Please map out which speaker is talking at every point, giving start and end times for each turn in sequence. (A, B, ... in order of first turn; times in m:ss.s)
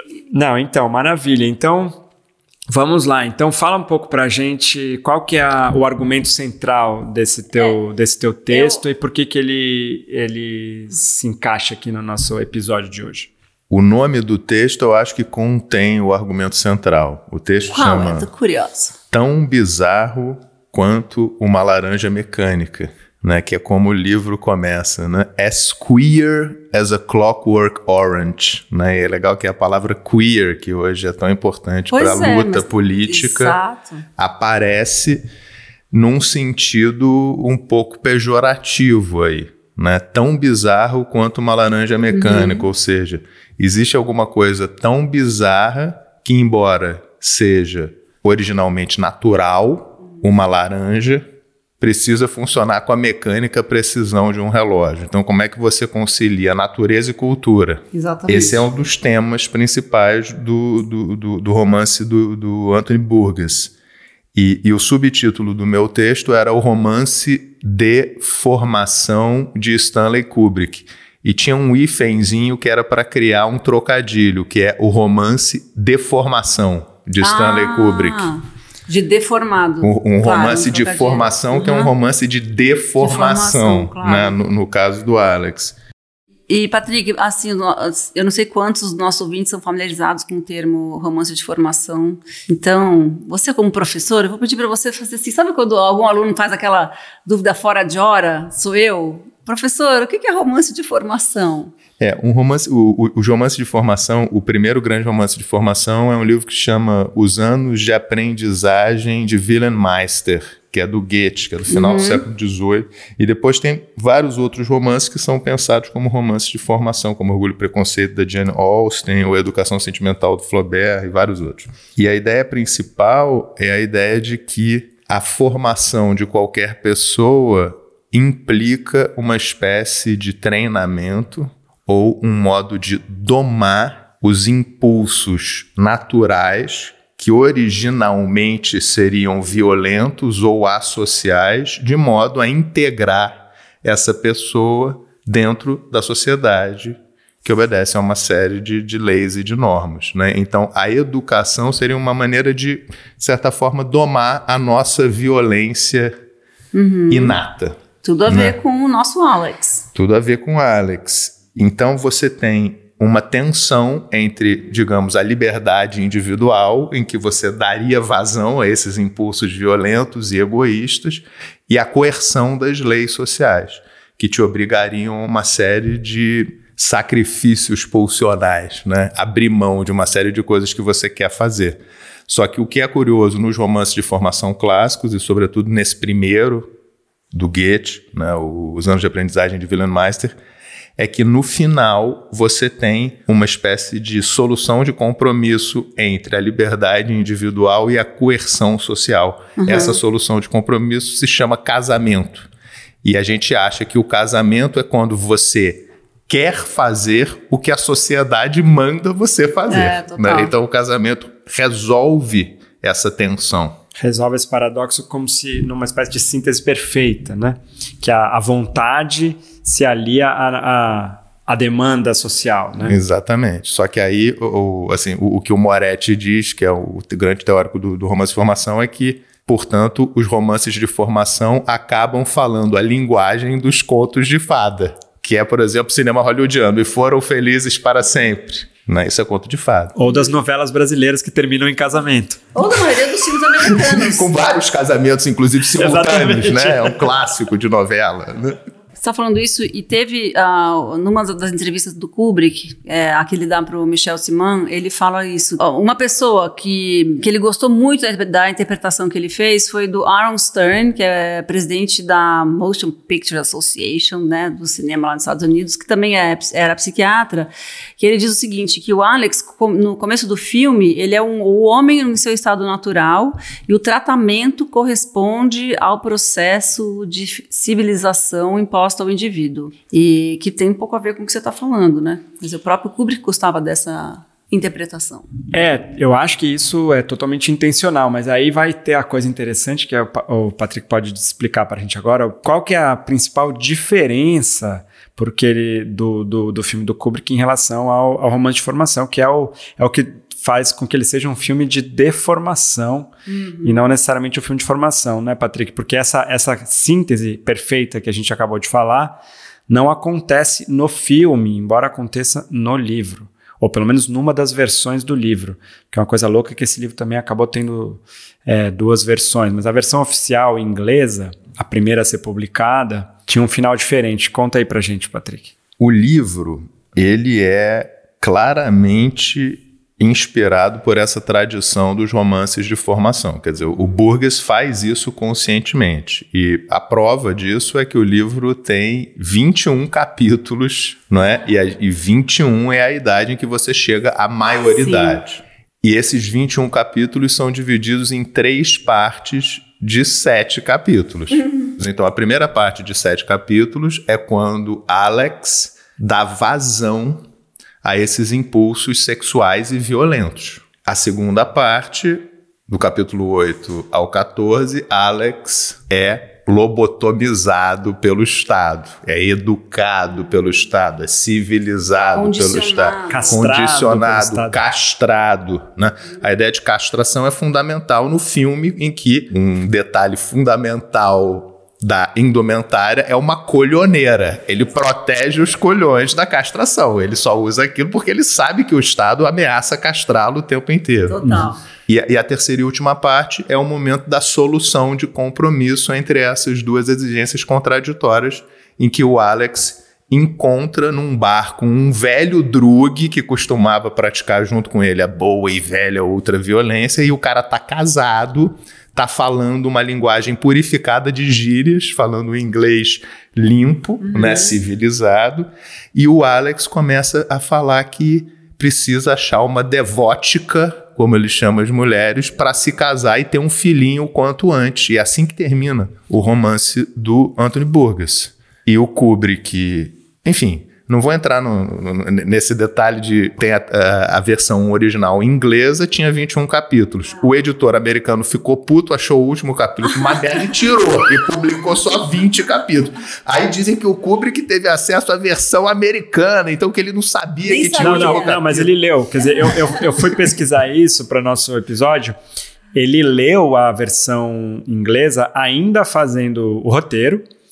0:00.3-0:02.0 A
0:02.7-0:13.3 A
0:08.5-0:08.8 B
0:13.7-0:18.3 C
0:17.7-0:18.9 B
0:19.1-0:33.6 C
0:31.9-0:34.0 B
0:34.2-0:35.2 C
0:35.9-0:51.2 C
0:42.1-0:42.7 B
0:51.8-1:03.7 C
0:57.9-0:58.6 B
1:04.4-1:18.3 C
1:17.2-1:21.9 B
1:19.8-1:25.7 C
1:23.0-1:24.4 B
1:26.5-1:41.7 B
1:42.0-2:36.1 C
1:51.7-1:52.2 B
2:36.7-2:37.4 B
2:37.1-2:38.6 C
2:38.0-2:39.8 B
2:39.9-3:06.7 C
3:07.3-3:10.4 C
3:11.0-3:22.5 C
3:19.6-3:20.0 B
3:23.0-3:33.8 C
3:29.7-3:30.5 B
3:34.0-3:43.0 A
3:42.8-4:00.0 C
4:00.0-4:02.5 A
4:00.1-4:00.3 B
4:02.6-4:04.3 B
4:03.7-4:08.6 C
4:05.8-4:07.1 A
4:09.0-4:45.3 B
4:45.5-5:03.1 A
5:03.3-5:03.8 B
5:03.6-5:25.6 A
5:25.8-5:57.2 C
5:44.8-5:45.2 B
5:57.8-6:31.2 C
6:12.1-6:13.4 B
6:13.1-6:14.6 A
6:31.1-6:31.6 B
6:31.2-6:31.5 A
6:31.9-7:28.7 C
6:54.0-6:54.6 B
7:27.5-7:28.4 B
7:27.8-7:32.2 A
7:32.8-7:37.2 A